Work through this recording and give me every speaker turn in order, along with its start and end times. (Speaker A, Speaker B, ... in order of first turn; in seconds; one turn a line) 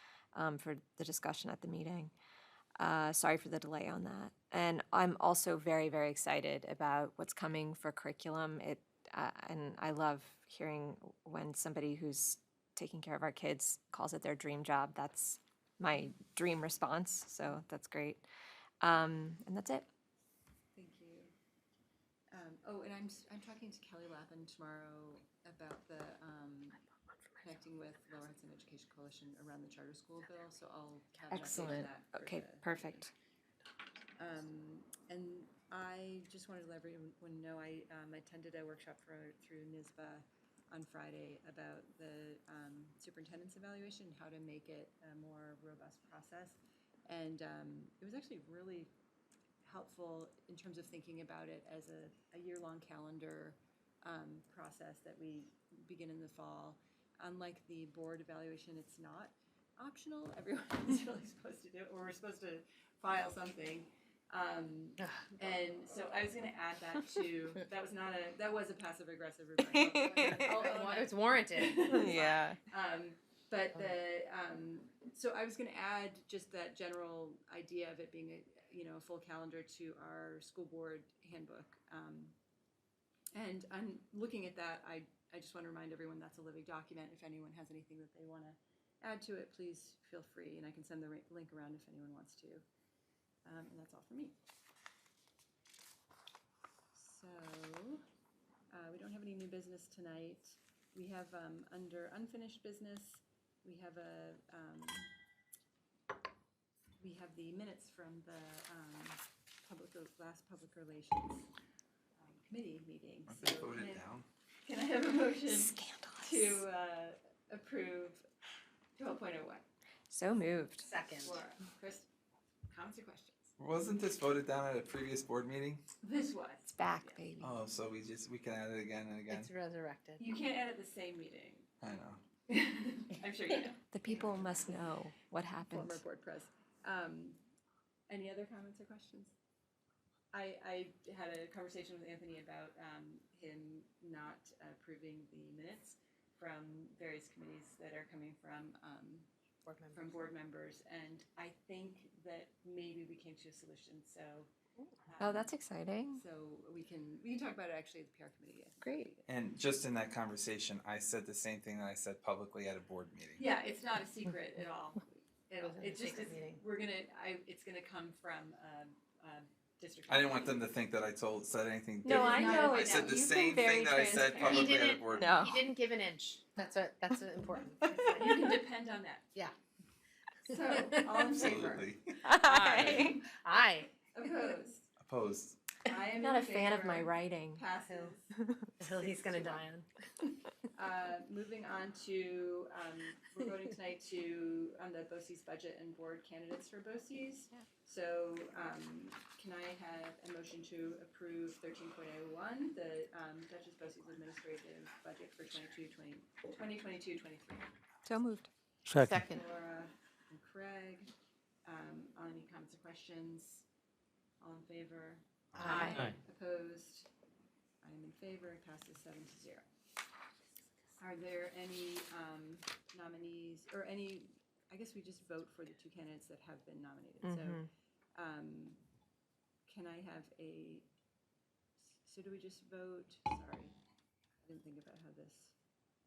Speaker A: 0.3-2.1
Speaker A: 2.8-18.2
Speaker A: 18.8-19.9
Speaker B: 20.8-21.3
Speaker B: 22.3-26.8
Speaker B: 27.4-33.0
Speaker A: 31.3-33.1
Speaker B: 34.2-48.9
Speaker B: 49.6-82.3
Speaker A: 70.0-70.4
Speaker C: 70.3-72.0
Speaker A: 71.8-72.6
Speaker B: 83.3-92.6
Speaker B: 93.5-94.4
Speaker B: 96.9-98.0
Speaker B: 98.7-105.1
Speaker B: 107.0-111.5
Speaker B: 112.2-114.1
Speaker D: 113.3-114.3
Speaker B: 114.7-118.2
Speaker A: 115.5-116.6
Speaker B: 119.0-119.6
Speaker A: 120.1-120.9
Speaker C: 120.8-121.4
Speaker B: 121.1-122.1
Speaker B: 122.7-123.5
Speaker D: 123.6-125.8
Speaker B: 126.0-127.2
Speaker A: 126.7-127.5
Speaker D: 127.4-129.5
Speaker C: 129.3-130.2
Speaker B: 130.2-131.7
Speaker D: 131.8-132.2
Speaker B: 132.5-134.4
Speaker A: 133.9-136.0
Speaker B: 135.7-137.4
Speaker B: 138.1-139.3
Speaker B: 140.3-149.3
Speaker C: 149.7-150.1
Speaker B: 149.9-154.5
Speaker B: 155.1-155.5
Speaker A: 155.2-156.2
Speaker B: 156.1-159.3
Speaker A: 158.8-159.1
Speaker D: 159.3-163.4
Speaker B: 163.4-170.7
Speaker C: 165.6-166.6
Speaker D: 170.1-175.4
Speaker A: 172.0-175.7
Speaker B: 172.1-173.2
Speaker C: 174.4-178.4
Speaker B: 177.8-179.3
Speaker B: 180.4-181.9
Speaker D: 181.3-182.2
Speaker A: 182.2-183.2
Speaker C: 182.5-183.9
Speaker B: 182.6-183.1
Speaker D: 182.7-183.1
Speaker B: 184.1-184.9
Speaker D: 185.0-185.6
Speaker B: 185.9-188.3
Speaker A: 186.1-187.7
Speaker C: 188.8-189.9
Speaker B: 188.8-189.7
Speaker B: 190.8-207.7
Speaker A: 208.1-208.5
Speaker C: 209.0-209.4
Speaker B: 209.2-211.1
Speaker B: 211.7-213.7
Speaker B: 214.4-217.1
Speaker C: 215.6-216.0
Speaker B: 217.8-219.7
Speaker B: 221.0-228.8
Speaker A: 227.2-227.7
Speaker B: 229.7-230.9
Speaker B: 231.8-233.8
Speaker B: 234.4-235.5